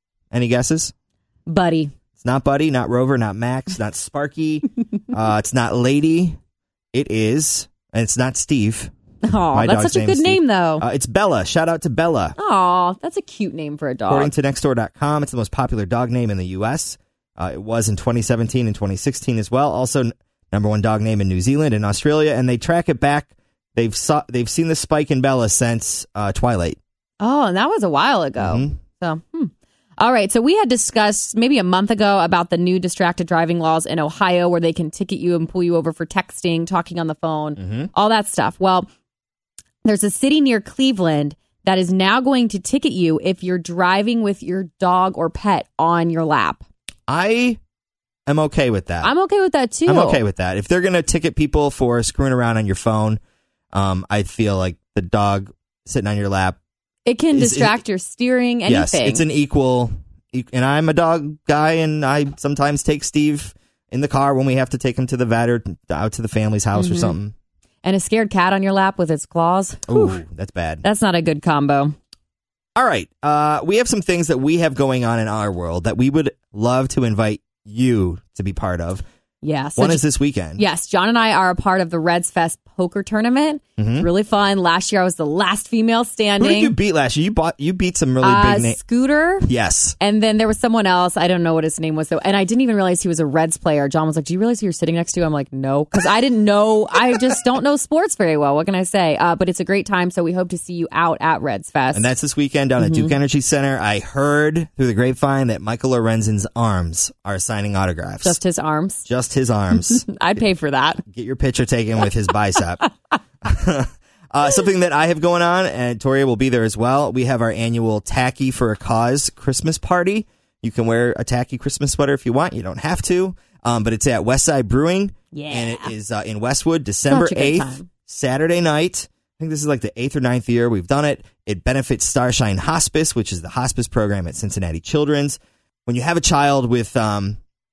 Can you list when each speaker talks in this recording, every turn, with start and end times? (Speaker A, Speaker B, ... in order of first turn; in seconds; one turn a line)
Speaker A: 0.3-0.9
Speaker B: 1.5-1.9
Speaker A: 2.2-6.4
Speaker A: 6.9-8.9
Speaker B: 9.2-10.8
Speaker A: 9.5-12.4
Speaker B: 12.4-14.3
Speaker A: 14.1-26.8
Speaker B: 27.2-38.9
Speaker A: 28.4-28.8
Speaker A: 37.6-37.9
Speaker B: 39.8-46.6
Speaker A: 47.1-47.6
Speaker A: 48.3-49.1
Speaker B: 49.0-50.2
Speaker A: 49.9-53.2
Speaker A: 53.7-56.6
Speaker B: 57.1-59.2
Speaker A: 57.3-57.8
Speaker A: 58.7-67.3
Speaker B: 66.8-67.2
Speaker B: 67.8-70.2
Speaker A: 69.9-70.8
Speaker B: 70.8-71.9
Speaker A: 72.8-79.0
Speaker B: 79.4-80.0
Speaker A: 79.8-80.6
Speaker B: 80.6-86.8
Speaker A: 83.8-84.1
Speaker A: 86.4-88.8
Speaker B: 88.2-89.5
Speaker A: 89.4-90.0
Speaker B: 90.0-102.1
Speaker A: 101.9-108.4
Speaker B: 102.8-103.2
Speaker B: 108.2-109.0
Speaker A: 109.0-110.1
Speaker B: 109.7-111.0
Speaker A: 111.1-112.9
Speaker A: 113.4-137.4
Speaker B: 125.3-125.9
Speaker B: 127.1-127.9